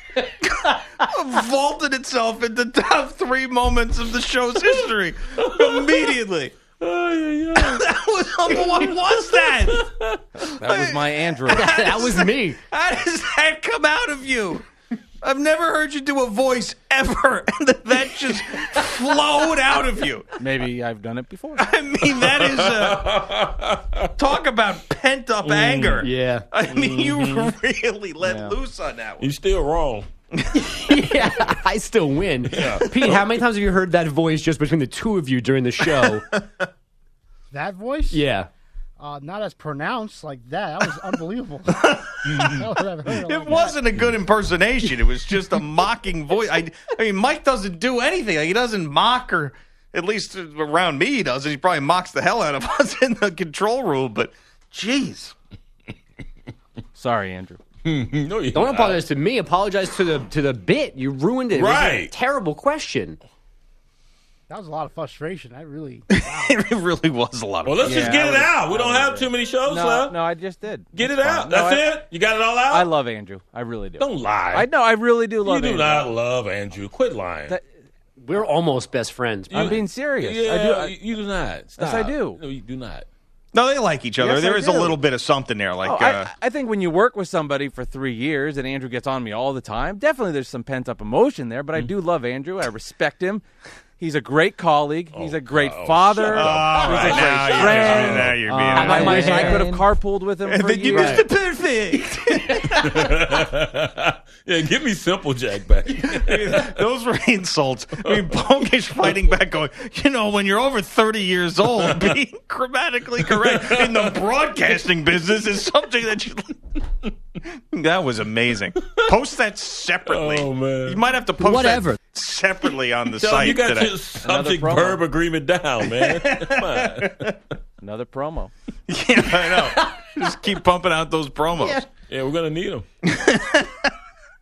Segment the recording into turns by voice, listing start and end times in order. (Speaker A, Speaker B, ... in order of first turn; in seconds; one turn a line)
Speaker A: 0.4-6.5
Speaker B: 5.4-5.8
Speaker B: 6.8-7.8
Speaker A: 7.5-9.9
Speaker B: 9.8-10.1
Speaker C: 10.6-11.8
Speaker A: 10.6-14.7
Speaker D: 11.5-12.6
Speaker A: 15.2-20.3
Speaker C: 20.4-21.7
Speaker A: 21.6-23.3
Speaker B: 22.1-24.1
Speaker A: 24.2-29.3
Speaker B: 25.4-26.0
Speaker D: 26.0-26.4
Speaker B: 26.6-27.5
Speaker C: 28.2-28.6
Speaker B: 29.2-30.1
Speaker D: 30.5-36.2
Speaker B: 32.5-32.8
Speaker E: 37.5-38.2
Speaker D: 38.1-38.5
Speaker E: 39.0-43.8
Speaker A: 41.7-55.3
Speaker C: 56.9-57.6
Speaker B: 57.8-59.0
Speaker D: 58.5-63.2
Speaker B: 61.5-62.1
Speaker E: 64.5-66.0
Speaker A: 66.1-68.1
Speaker B: 67.6-70.2
Speaker C: 67.8-72.0
Speaker B: 70.9-72.9
Speaker C: 72.7-76.1
Speaker B: 74.0-74.7
Speaker B: 75.4-77.5
Speaker D: 78.2-79.8
Speaker B: 79.5-83.0
Speaker C: 79.5-80.9
Speaker C: 81.8-82.4
Speaker A: 83.5-86.3
Speaker C: 84.2-85.0
Speaker C: 85.8-93.4
Speaker C: 94.0-101.3
Speaker B: 95.1-98.4
Speaker A: 96.3-99.7
Speaker D: 98.7-99.8
Speaker A: 100.4-103.2
Speaker D: 100.8-101.2
Speaker B: 102.7-106.8
Speaker A: 105.9-116.6
Speaker B: 111.8-112.1
Speaker B: 113.2-114.1
Speaker A: 117.7-123.9
Speaker B: 120.1-121.0
Speaker D: 121.4-122.0
Speaker B: 123.2-127.3
Speaker C: 124.2-125.0
Speaker A: 125.8-127.3
Speaker C: 127.8-128.5
Speaker A: 128.9-131.8
Speaker D: 131.6-131.8
Speaker B: 132.1-132.8
Speaker A: 133.0-133.9